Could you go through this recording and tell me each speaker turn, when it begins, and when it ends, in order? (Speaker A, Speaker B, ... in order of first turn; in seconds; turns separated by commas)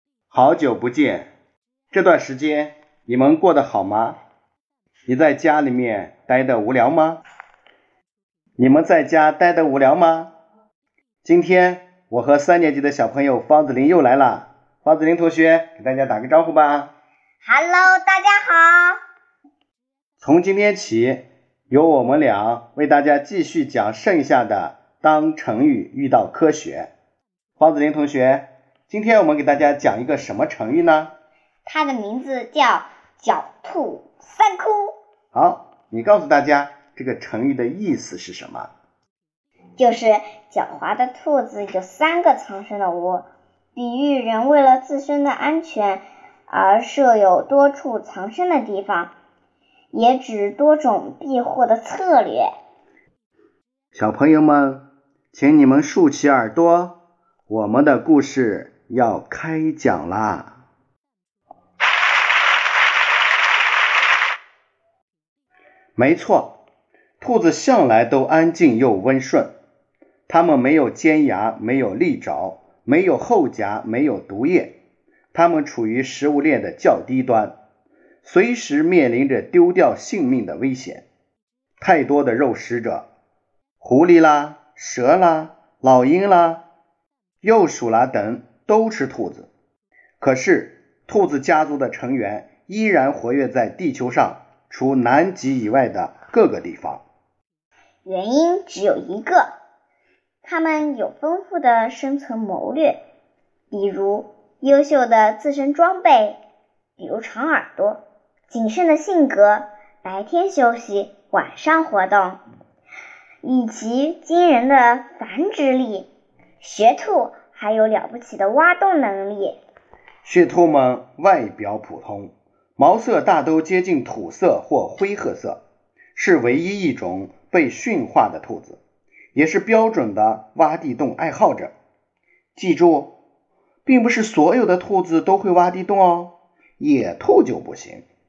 Speaker A: 0.3-1.3, Speaker A: 1.9-4.2, Speaker A: 5.1-7.2, Speaker A: 8.6-10.3, Speaker A: 11.2-16.9, Speaker B: 17.4-19.0, Speaker A: 20.2-26.9, Speaker A: 27.6-31.1, Speaker B: 31.7-34.9, Speaker A: 35.3-38.7, Speaker B: 39.8-49.1, Speaker B: 49.9-52.5, Speaker A: 53.9-57.0, Speaker A: 57.5-60.6, Speaker A: 66.0-66.6, Speaker A: 67.2-69.5, Speaker A: 70.3-74.8, Speaker A: 75.3-77.6, Speaker A: 78.2-81.1, Speaker A: 81.8-83.1, Speaker A: 83.8-86.6, Speaker A: 87.4-89.5, Speaker A: 90.2-97.0, Speaker B: 98.0-99.5, Speaker B: 100.4-103.0, Speaker B: 103.7-106.4, Speaker B: 107.0-112.4, Speaker B: 113.4-116.1, Speaker B: 116.6-119.6, Speaker A: 120.2-125.6, Speaker A: 126.2-128.8, Speaker A: 129.3-131.8, Speaker A: 132.6-133.1, Speaker A: 133.8-138.1